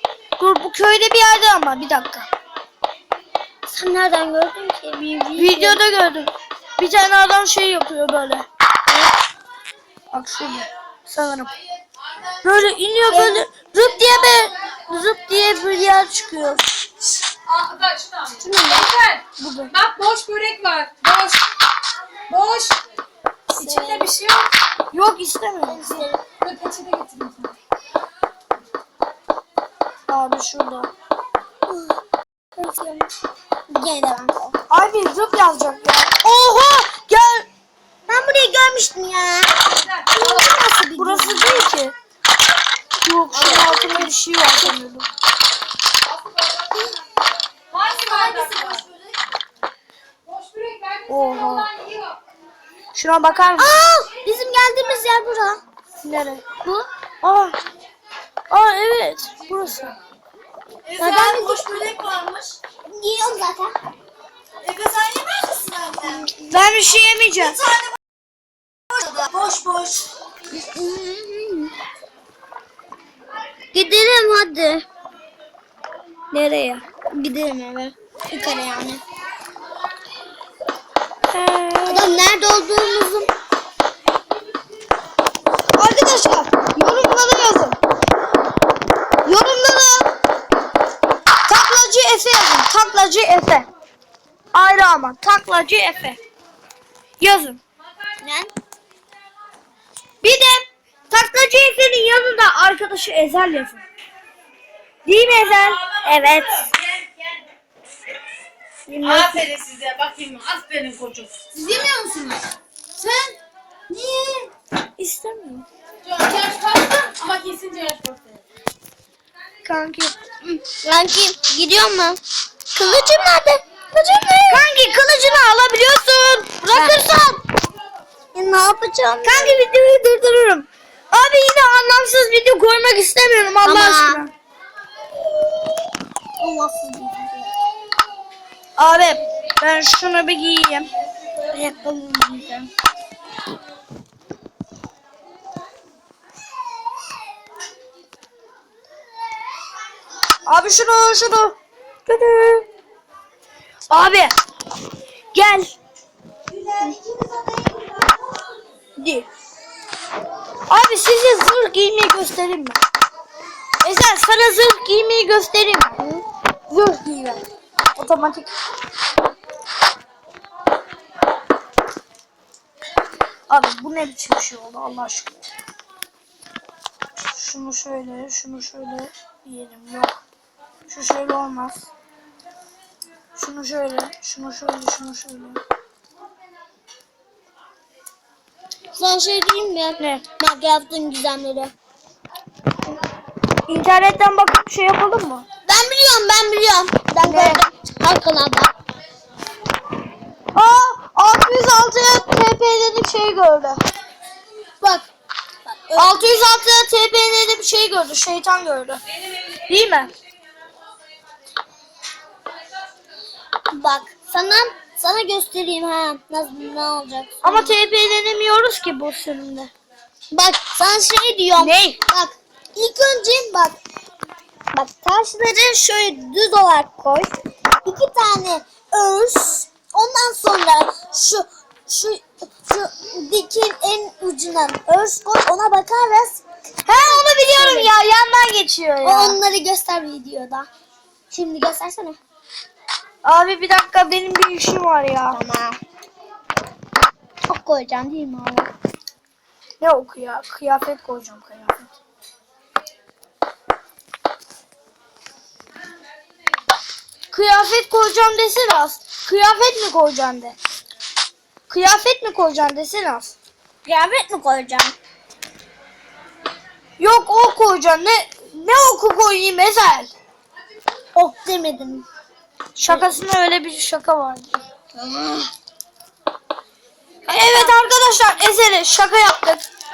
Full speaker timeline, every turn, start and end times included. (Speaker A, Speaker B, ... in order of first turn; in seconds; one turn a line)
Speaker A: 0.4-2.3
Speaker B: 3.7-5.8
Speaker A: 5.4-8.4
Speaker A: 10.1-11.5
Speaker A: 12.4-16.6
Speaker B: 13.1-13.4
Speaker C: 17.8-18.1
Speaker B: 18.3-19.0
Speaker A: 19.4-19.9
Speaker C: 19.9-21.4
Speaker C: 22.3-22.8
Speaker B: 23.5-24.2
Speaker C: 23.7-24.4
Speaker A: 24.9-26.0
Speaker B: 25.7-26.2
Speaker C: 26.4-27.5
Speaker A: 30.1-30.9
Speaker B: 31.7-32.0
Speaker B: 32.6-33.1
Speaker B: 33.7-34.6
Speaker A: 34.7-37.5
Speaker B: 38.1-41.6
Speaker A: 41.0-42.0
Speaker A: 43.0-45.1
Speaker B: 43.3-44.1
Speaker C: 47.9-48.4
Speaker B: 48.1-48.8
Speaker C: 50.5-51.0
Speaker A: 51.1-51.7
Speaker A: 53.0-53.7
Speaker B: 53.6-55.6
Speaker A: 56.0-57.6
Speaker A: 58.5-59.9
Speaker A: 60.9-62.5
Speaker B: 61.0-61.6
Speaker B: 62.9-63.7
Speaker A: 64.7-65.5
Speaker C: 65.0-65.9
Speaker B: 66.0-66.5
Speaker A: 66.5-67.6
Speaker A: 69.0-70.0
Speaker B: 70.5-71.7
Speaker B: 73.7-74.9
Speaker A: 76.3-76.8
Speaker B: 77.1-79.0
Speaker A: 81.3-82.2
Speaker B: 81.9-83.3
Speaker A: 85.8-87.8
Speaker A: 89.2-90.1
Speaker A: 91.5-93.7
Speaker A: 94.5-96.2
Speaker A: 97.2-97.6
Speaker B: 98.2-98.5
Speaker A: 100.2-103.8
Speaker A: 105.0-106.4
Speaker B: 106.1-106.5
Speaker A: 108.9-109.5
Speaker C: 109.5-112.5
Speaker C: 113.0-113.3
Speaker B: 113.9-114.5
Speaker A: 115.0-115.7
Speaker C: 116.1-118.3
Speaker A: 119.6-120.2
Speaker B: 120.4-122.2
Speaker B: 122.7-124.7
Speaker A: 124.5-127.4
Speaker B: 126.7-127.1
Speaker B: 128.3-129.6
Speaker A: 129.2-134.3
Speaker B: 133.7-134.2
Speaker B: 136.4-137.5
Speaker A: 138.8-140.9
Speaker A: 141.5-142.6
Speaker B: 141.6-142.4
Speaker A: 150.5-151.6
Speaker A: 152.1-152.7
Speaker A: 153.9-154.3
Speaker A: 155.3-155.8
Speaker A: 159.0-159.3
Speaker A: 160.7-162.8
Speaker A: 163.8-166.0
Speaker B: 166.0-166.2
Speaker A: 166.7-167.4
Speaker A: 168.0-168.5
Speaker A: 173.5-175.4
Speaker A: 177.3-180.2
Speaker A: 180.9-181.9
Speaker A: 183.4-185.6
Speaker B: 188.9-191.7
Speaker A: 190.0-190.2
Speaker A: 193.7-195.4
Speaker B: 195.7-198.7
Speaker A: 197.2-197.6
Speaker A: 200.5-203.8
Speaker B: 204.8-205.1
Speaker B: 205.7-206.2
Speaker A: 206.0-209.0
Speaker A: 209.7-210.1
Speaker B: 213.7-217.8
Speaker A: 217.4-219.7
Speaker B: 220.3-223.8
Speaker A: 221.6-222.0
Speaker B: 224.7-227.3
Speaker B: 227.8-236.4
Speaker A: 236.8-239.4
Speaker B: 237.0-237.9
Speaker B: 239.0-240.7
Speaker B: 241.3-242.2
Speaker A: 243.2-245.4
Speaker B: 245.3-245.8
Speaker B: 247.5-248.7
Speaker A: 249.8-251.9
Speaker A: 257.3-260.6
Speaker A: 261.7-263.3
Speaker B: 263.8-265.0
Speaker A: 267.0-270.1
Speaker B: 271.1-272.1
Speaker A: 272.8-274.6
Speaker B: 274.9-275.5
Speaker A: 277.3-279.6
Speaker B: 277.3-277.7